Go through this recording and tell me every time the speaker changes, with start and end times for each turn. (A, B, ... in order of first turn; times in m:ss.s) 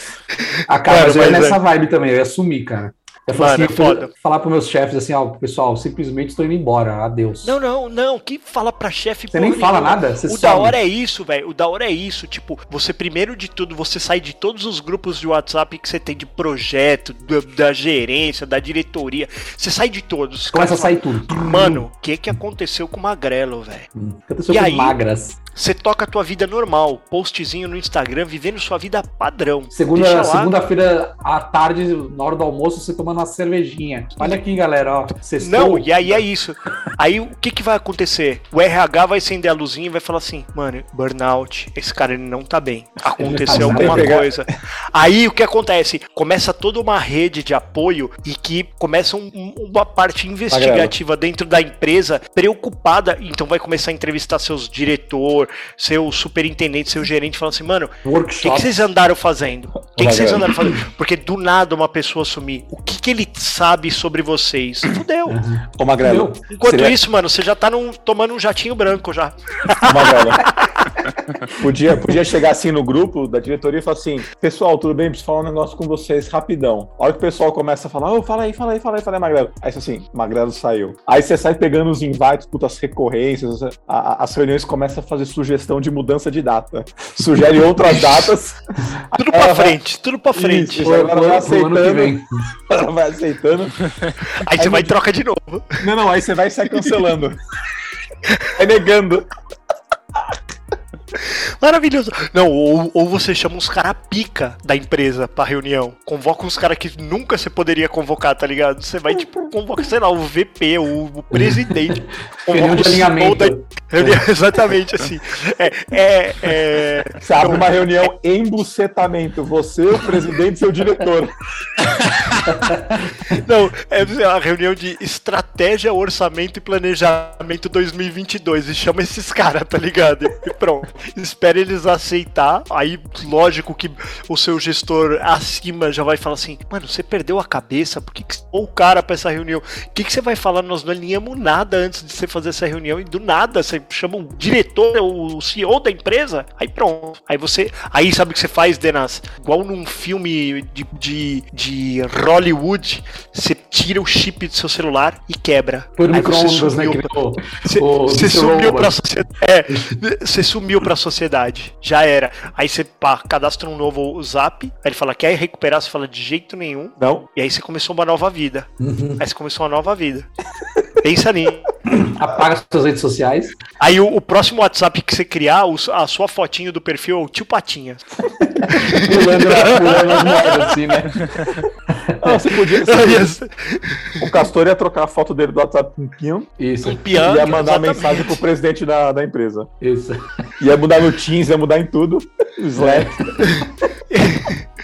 0:00.7-0:07.6 A
0:00.9-0:01.6 B
0:03.3-0:04.1 B
0:07.4-0:23.9 B
0:09.3-0:10.8 A
0:20.5-0:21.8 A
0:24.0-0:25.4 A
0:24.5-0:25.0 B
0:25.5-0:30.5 B
0:29.7-0:36.2 A
0:35.4-1:05.4 B
0:43.2-0:44.1 A
0:43.5-0:44.4 C
0:50.5-0:50.9 C
0:58.0-0:58.8 A
0:59.9-1:00.5 C
1:05.3-1:06.4 A
1:05.8-1:06.9 C
1:06.5-1:10.8 B
1:09.8-1:10.4 C
1:11.6-1:29.8 C
1:28.0-1:28.3 B
1:29.1-1:30.9 B
1:30.3-1:33.8 C
1:30.8-1:32.5 A
1:34.4-1:35.9 B
1:34.5-1:34.9 C
1:35.8-1:37.4 C
1:38.5-1:39.3 C
1:41.1-1:58.1 B
1:51.3-1:54.2 A
1:57.2-2:01.3 C
2:02.4-2:03.4 A
2:03.3-2:50.3 B
2:36.0-2:38.9 A
2:39.7-2:40.0 A
2:47.0-2:47.2 C
2:48.8-2:49.2 A
2:51.0-2:51.7 B
2:51.9-2:53.6 A
2:53.8-2:58.0 B
2:58.4-3:01.3 A
2:58.7-3:00.8 B
3:01.9-3:02.2 A
3:02.2-3:03.3 C
3:02.6-3:04.3 B
3:04.2-3:06.5 C
3:06.6-3:07.1 A
3:06.8-3:08.4 B
3:07.1-3:09.7 C
3:09.8-3:10.2 A
3:10.6-3:13.2 C
3:12.7-3:13.5 A
3:13.5-3:14.7 B